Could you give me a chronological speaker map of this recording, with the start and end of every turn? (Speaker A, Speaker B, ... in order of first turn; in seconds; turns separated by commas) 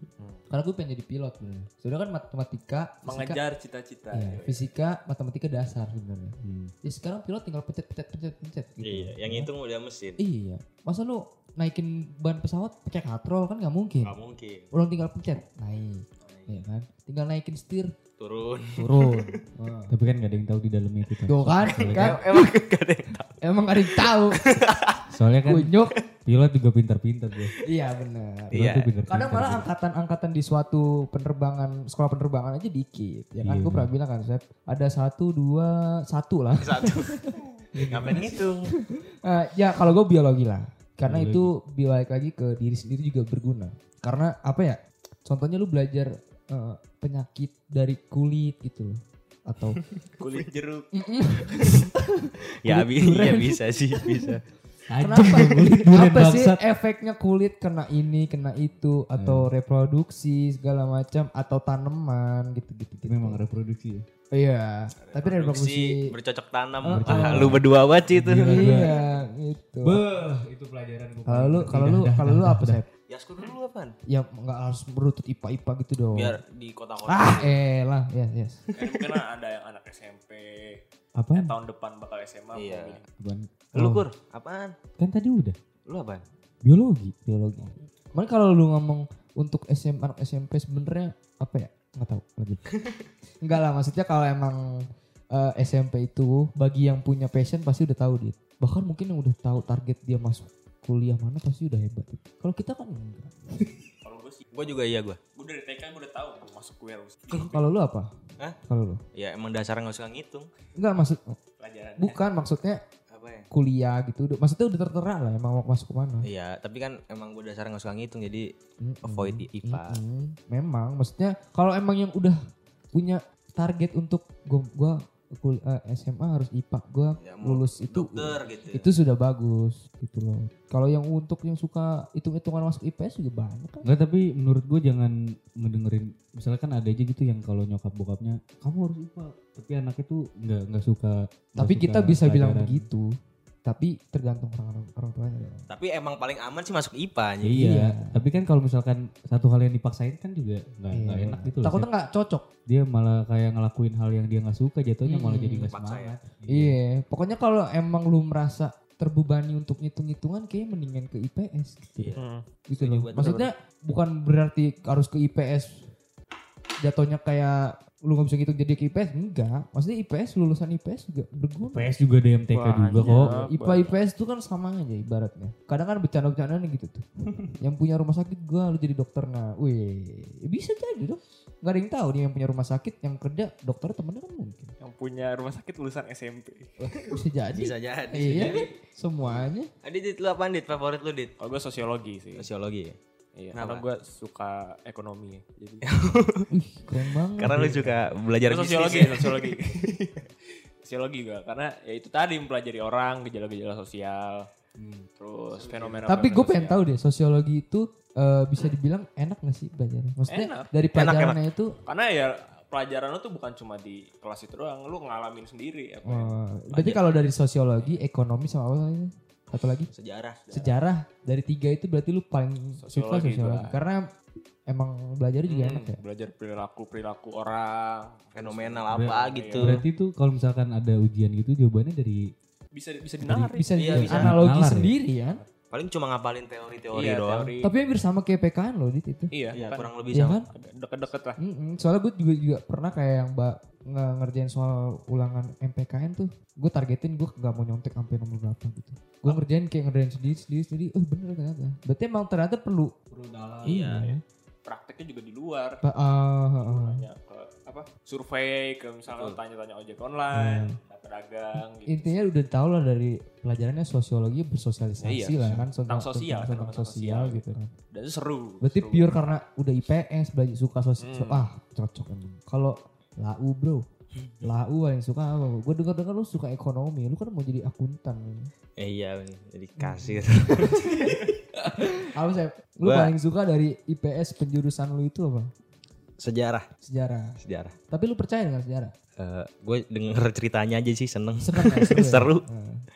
Speaker A: 0.5-3.4, Speaker B: 3.0-4.7, Speaker A: 4.1-9.5, Speaker C: 6.4-6.7, Speaker D: 8.8-10.2, Speaker A: 10.2-14.1, Speaker D: 14.0-14.7, Speaker A: 14.7-17.9, Speaker D: 16.2-16.6, Speaker D: 18.2-19.4, Speaker A: 18.8-19.9, Speaker C: 19.9-22.2, Speaker A: 21.3-22.5, Speaker D: 21.6-23.4, Speaker A: 23.4-24.4, Speaker D: 23.9-25.0, Speaker C: 25.1-25.7, Speaker A: 25.4-26.0, Speaker C: 26.2-27.5, Speaker A: 27.6-37.4, Speaker C: 28.5-29.7, Speaker D: 28.5-28.9, Speaker C: 33.4-33.9, Speaker D: 36.6-37.2, Speaker C: 37.8-38.3, Speaker D: 37.9-38.7, Speaker A: 39.2-49.8, Speaker C: 41.1-41.5, Speaker D: 50.1-50.9, Speaker B: 50.2-50.5, Speaker A: 50.9-54.2, Speaker D: 51.5-51.9, Speaker D: 52.6-54.4, Speaker C: 54.9-56.6, Speaker A: 55.0-63.4, Speaker C: 59.2-59.5, Speaker C: 63.0-64.0, Speaker A: 64.3-66.0, Speaker D: 65.0-68.9, Speaker A: 66.8-67.6, Speaker C: 66.9-68.9, Speaker A: 68.3-70.0, Speaker C: 69.8-72.8, Speaker A: 71.3-72.9, Speaker D: 73.1-74.0, Speaker A: 74.1-76.4, Speaker D: 76.1-77.5, Speaker A: 77.1-78.6, Speaker D: 78.8-79.0, Speaker B: 78.8-80.8, Speaker C: 81.1-81.5, Speaker B: 81.3-83.0, Speaker D: 82.5-83.0, Speaker C: 83.2-84.0, Speaker D: 83.7-84.7, Speaker C: 85.0-85.5, Speaker D: 85.9-86.2, Speaker C: 86.6-87.2, Speaker A: 87.3-92.6, Speaker A: 93.4-94.6, Speaker A: 95.3-103.8, Speaker B: 104.0-104.4, Speaker D: 104.5-105.2, Speaker B: 105.3-107.5, Speaker A: 107.5-109.0, Speaker D: 109.1-110.5, Speaker A: 110.8-111.4, Speaker B: 111.6-112.2, Speaker A: 112.0-112.8, Speaker D: 113.1-113.5, Speaker A: 113.5-116.3, Speaker D: 116.2-118.5, Speaker A: 118.8-122.4, Speaker D: 119.0-120.0, Speaker A: 122.9-133.8, Speaker D: 127.2-128.8, Speaker C: 133.8-142.8, Speaker A: 141.6-143.1, Speaker A: 143.6-145.7, Speaker D: 145.7-147.7, Speaker C: 147.4-151.9, Speaker A: 147.5-148.2, Speaker A: 150.9-152.4, Speaker C: 152.7-156.8, Speaker A: 155.1-155.7, Speaker D: 155.7-156.2, Speaker A: 156.5-162.1, Speaker D: 161.9-163.5, Speaker B: 162.2-162.4, Speaker A: 162.7-165.9, Speaker A: 166.8-171.9, Speaker C: 171.7-173.3, Speaker B: 172.5-173.9, Speaker A: 173.0-177.0, Speaker A: 177.6-184.7, Speaker B: 184.8-186.7, Speaker A: 186.8-189.7, Speaker D: 187.5-188.7, Speaker D: 189.8-191.3, Speaker B: 191.4-192.5, Speaker D: 192.3-192.9, Speaker B: 193.4-195.9, Speaker D: 193.5-193.8, Speaker D: 195.9-196.5, Speaker A: 196.5-198.0, Speaker D: 197.4-199.6, Speaker B: 198.4-200.3, Speaker B: 200.8-204.4, Speaker C: 204.8-205.1, Speaker B: 205.2-206.8, Speaker C: 205.6-205.8, Speaker D: 205.6-206.2, Speaker A: 206.1-211.8, Speaker B: 210.3-210.7, Speaker D: 210.9-211.4, Speaker B: 211.8-216.3, Speaker A: 216.0-219.9, Speaker D: 216.7-217.0, Speaker D: 219.9-220.4, Speaker B: 220.5-220.7, Speaker A: 220.5-224.0, Speaker B: 222.8-223.7, Speaker A: 224.7-226.0, Speaker B: 225.5-229.8, Speaker D: 228.3-229.8, Speaker C: 228.9-232.2, Speaker B: 232.7-233.7, Speaker C: 233.2-234.9, Speaker A: 233.3-235.4, Speaker D: 233.8-234.3, Speaker D: 235.7-237.5, Speaker B: 236.9-237.7, Speaker A: 237.6-239.3, Speaker B: 239.3-241.4, Speaker D: 239.5-240.4, Speaker A: 240.1-240.4, Speaker A: 241.4-252.9, Speaker C: 253.1-254.0, Speaker D: 253.6-254.1, Speaker A: 253.7-254.2, Speaker B: 254.6-255.8, Speaker A: 255.8-257.0, Speaker B: 256.6-262.1, Speaker D: 259.1-259.4, Speaker C: 260.3-260.8, Speaker A: 261.9-267.7, Speaker B: 265.0-269.3, Speaker C: 265.4-265.7, Speaker A: 268.6-273.8, Speaker B: 271.0-271.5, Speaker A: 274.4-278.5, Speaker D: 278.8-280.9, Speaker A: 279.8-285.5, Speaker D: 282.8-283.1, Speaker D: 286.2-286.7, Speaker A: 286.8-287.3, Speaker D: 287.4-287.7, Speaker A: 287.9-288.9, Speaker D: 289.2-292.4, Speaker A: 291.4-292.8